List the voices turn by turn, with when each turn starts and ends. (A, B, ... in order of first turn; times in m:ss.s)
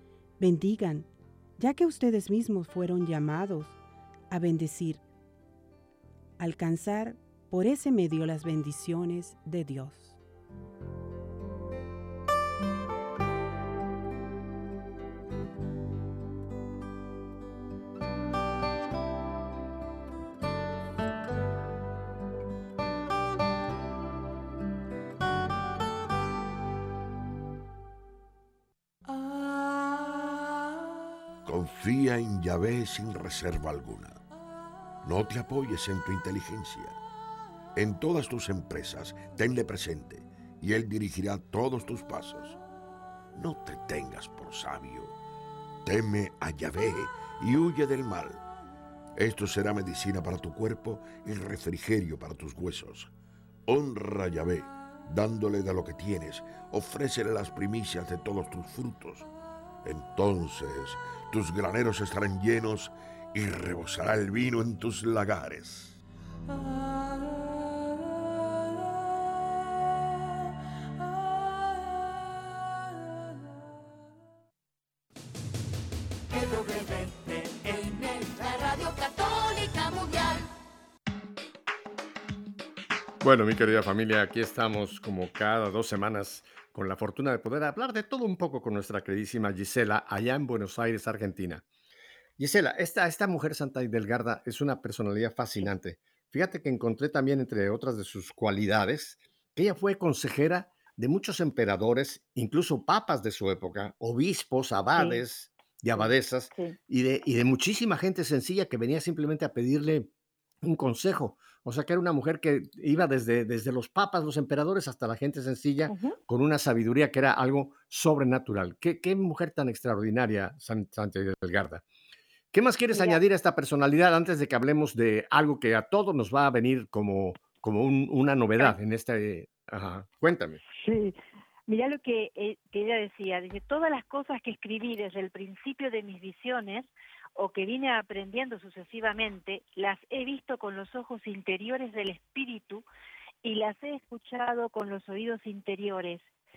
0:00.4-0:03.8 A
0:04.3-0:05.0 A
0:06.4-0:10.2 A
0:31.4-0:34.2 B
0:35.0-0:37.0 B
0:37.8-0:42.6 B
0:43.3-0:45.1 B
0:45.8-0:48.4 B
0:49.2-0:53.1 B
0:53.7-0:59.3 B
0:59.8-1:06.0 B
1:23.2-1:31.6 C
1:32.4-1:50.1 C
1:45.0-1:45.2 D
1:45.9-1:46.8 D
1:50.6-2:01.8 C
1:55.8-1:56.2 D
2:02.5-2:10.6 C
2:02.9-2:03.2 D
2:10.8-2:11.2 D
2:11.7-2:22.8 D
2:23.4-2:26.3 D